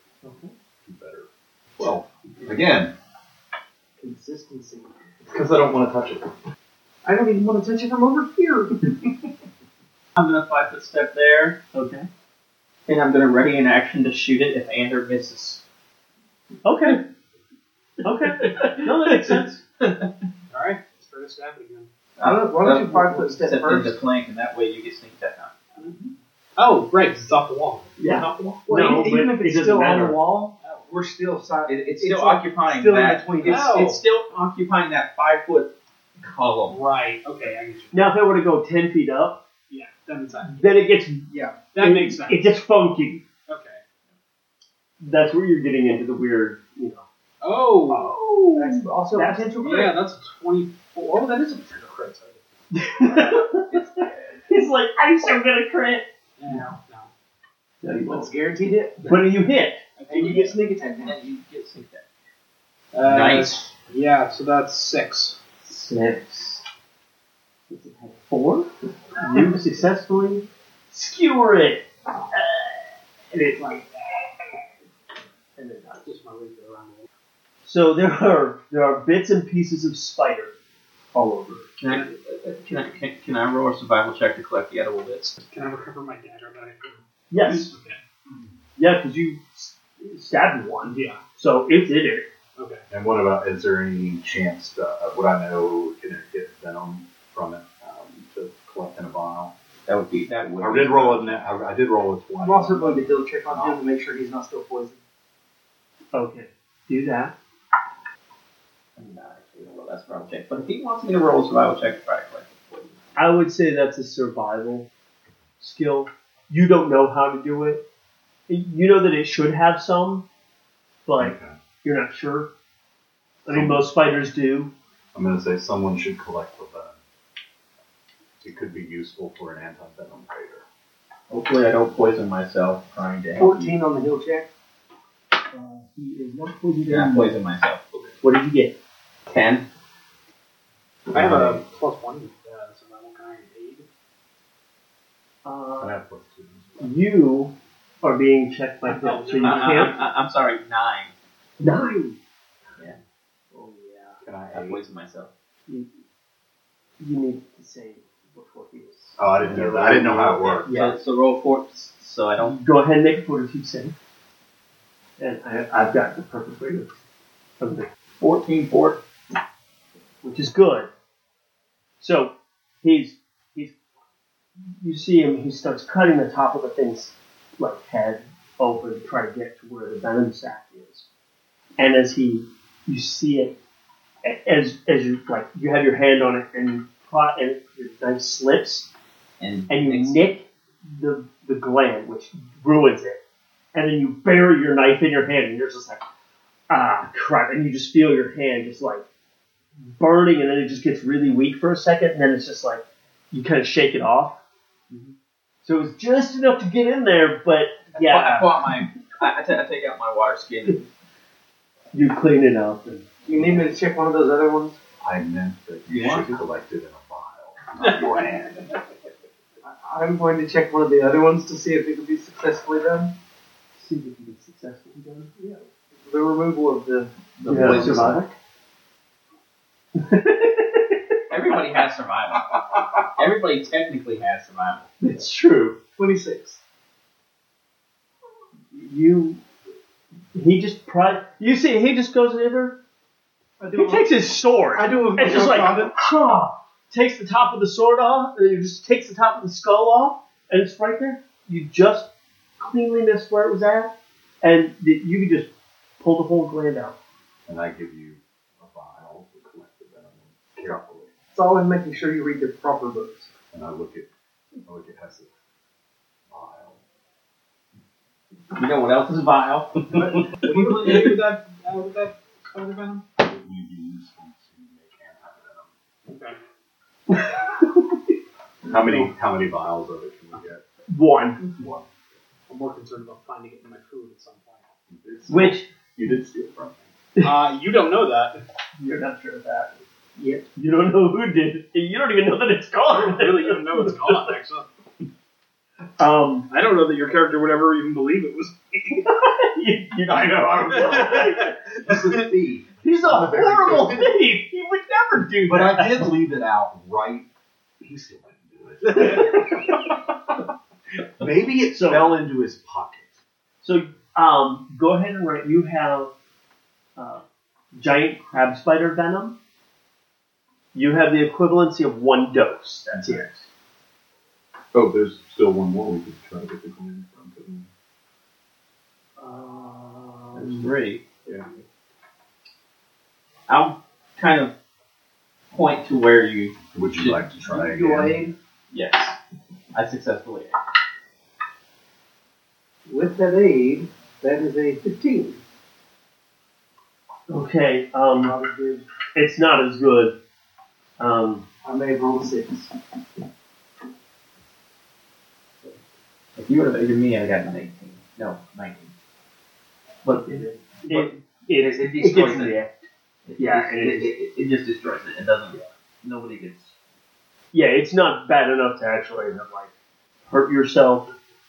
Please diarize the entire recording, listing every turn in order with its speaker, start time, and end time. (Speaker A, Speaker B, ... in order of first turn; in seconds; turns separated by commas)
Speaker A: 0.2-0.5, Speaker B: 0.8-2.9, Speaker C: 4.0-5.0, Speaker B: 5.2-6.3, Speaker C: 7.0-8.9, Speaker D: 10.1-11.6, Speaker A: 11.7-12.1, Speaker D: 12.9-15.6, Speaker A: 16.6-17.0, Speaker A: 18.0-19.6, Speaker D: 18.4-19.4, Speaker E: 20.5-21.9, Speaker D: 22.2-25.6, Speaker C: 22.2-24.0, Speaker E: 25.8-26.1, Speaker E: 26.6-27.9, Speaker A: 28.0-30.2, Speaker D: 28.0-28.6, Speaker C: 28.6-33.7, Speaker E: 30.6-30.9, Speaker D: 31.6-36.8, Speaker E: 33.4-34.0, Speaker E: 36.7-38.1, Speaker A: 37.9-39.4, Speaker E: 39.7-40.8, Speaker A: 40.4-43.2, Speaker C: 41.3-41.6, Speaker E: 41.7-42.5, Speaker E: 43.5-43.8, Speaker A: 45.0-47.0, Speaker E: 47.4-48.1, Speaker A: 47.9-50.0, Speaker C: 48.5-49.5, Speaker E: 49.6-52.4, Speaker A: 52.7-56.7, Speaker D: 53.5-54.4, Speaker E: 56.4-57.1, Speaker A: 57.8-58.3, Speaker C: 58.1-59.2, Speaker A: 59.0-59.8, Speaker E: 60.0-60.6, Speaker C: 60.1-61.2, Speaker D: 61.0-62.0, Speaker E: 62.9-65.4, Speaker D: 63.0-63.6, Speaker A: 65.6-66.6, Speaker A: 67.7-73.9, Speaker A: 75.6-76.1, Speaker E: 76.0-77.1, Speaker A: 77.6-80.5, Speaker A: 81.1-81.7, Speaker D: 81.8-85.4, Speaker E: 85.4-88.0, Speaker A: 87.3-87.7, Speaker A: 88.8-92.3, Speaker E: 90.8-91.2, Speaker E: 92.5-92.8, Speaker B: 92.9-99.5, Speaker D: 99.9-101.4, Speaker B: 100.6-103.8, Speaker C: 102.4-105.0, Speaker A: 106.1-107.3, Speaker D: 109.0-113.0, Speaker A: 113.2-114.9, Speaker A: 115.6-117.8, Speaker A: 118.5-120.2, Speaker A: 121.0-122.5, Speaker B: 121.2-121.5, Speaker A: 123.4-124.7, Speaker B: 123.5-123.9, Speaker B: 125.1-127.0, Speaker B: 128.4-130.6, Speaker D: 131.3-133.7, Speaker C: 133.4-134.5, Speaker A: 135.5-137.4, Speaker D: 136.9-138.0, Speaker A: 138.2-138.8, Speaker D: 139.2-139.7, Speaker E: 141.1-143.8, Speaker B: 141.1-141.6, Speaker A: 145.4-146.0, Speaker B: 145.8-146.9, Speaker A: 146.8-150.0, Speaker E: 148.9-150.0, Speaker D: 149.4-151.1, Speaker A: 151.6-152.2, Speaker A: 153.5-154.2, Speaker B: 154.2-154.8, Speaker D: 154.5-155.3, Speaker A: 157.0-159.2, Speaker B: 159.2-160.7, Speaker D: 159.4-162.6, Speaker A: 160.6-160.9, Speaker A: 162.4-163.9, Speaker A: 165.2-167.0, Speaker A: 167.6-167.9, Speaker D: 168.2-169.0, Speaker A: 170.2-170.9, Speaker A: 172.0-173.8, Speaker A: 174.8-181.1, Speaker A: 181.8-183.6, Speaker A: 184.2-188.9, Speaker D: 189.4-190.2, Speaker A: 189.7-193.2, Speaker A: 193.7-196.0, Speaker A: 196.7-199.0, Speaker A: 199.9-204.4, Speaker A: 205.6-208.8, Speaker D: 207.9-210.8, Speaker A: 211.9-213.1, Speaker C: 213.2-214.8, Speaker B: 213.3-213.6, Speaker B: 215.0-218.7, Speaker D: 215.9-216.4, Speaker C: 219.6-223.1, Speaker A: 223.8-225.3, Speaker C: 225.4-227.1, Speaker B: 227.4-228.2, Speaker D: 227.4-228.2, Speaker A: 227.5-228.3, Speaker A: 229.9-231.2, Speaker D: 231.3-234.9, Speaker A: 235.0-235.8, Speaker C: 236.0-236.6, Speaker A: 238.7-239.4, Speaker A: 240.3-242.8, Speaker C: 243.6-244.1, Speaker A: 243.7-255.5, Speaker C: 244.7-245.9, Speaker A: 256.0-257.0, Speaker B: 257.5-261.1, Speaker C: 261.3-263.3, Speaker B: 263.5-264.1, Speaker B: 264.6-265.3, Speaker B: 266.3-266.8, Speaker D: 268.5-270.3, Speaker E: 270.0-273.1, Speaker B: 273.2-275.7, Speaker E: 276.1-276.4, Speaker B: 278.6-280.6, Speaker A: 280.9-281.4, Speaker B: 281.4-281.9, Speaker E: 282.5-284.6, Speaker B: 284.9-286.9, Speaker A: 285.3-285.7, Speaker E: 287.2-288.4, Speaker A: 288.8-289.8, Speaker A: 290.5-294.3, Speaker E: 292.9-294.7, Speaker A: 296.0-296.5, Speaker E: 296.5-299.1, Speaker A: 299.1-301.6, Speaker B: 300.1-304.1, Speaker E: 300.9-302.0, Speaker A: 302.8-306.1, Speaker B: 305.5-307.3, Speaker B: 307.8-309.7, Speaker B: 311.2-313.2, Speaker A: 311.7-312.2, Speaker A: 313.6-316.1, Speaker A: 316.9-319.4, Speaker A: 320.7-323.4, Speaker B: 322.9-323.3, Speaker B: 324.7-327.7, Speaker A: 329.2-330.7, Speaker D: 330.3-331.0, Speaker D: 333.5-334.5, Speaker D: 335.5-337.2, Speaker B: 336.7-338.2, Speaker C: 337.4-338.3, Speaker D: 338.7-339.2, Speaker D: 339.7-340.6, Speaker C: 342.9-345.4, Speaker A: 347.3-348.4, Speaker C: 348.2-348.9, Speaker A: 349.1-350.1, Speaker A: 351.0-351.4, Speaker C: 351.6-352.7, Speaker D: 356.4-358.9, Speaker D: 360.0-362.6, Speaker A: 360.1-362.8, Speaker D: 363.2-366.7, Speaker A: 363.4-364.1, Speaker A: 367.5-369.7, Speaker A: 370.3-371.1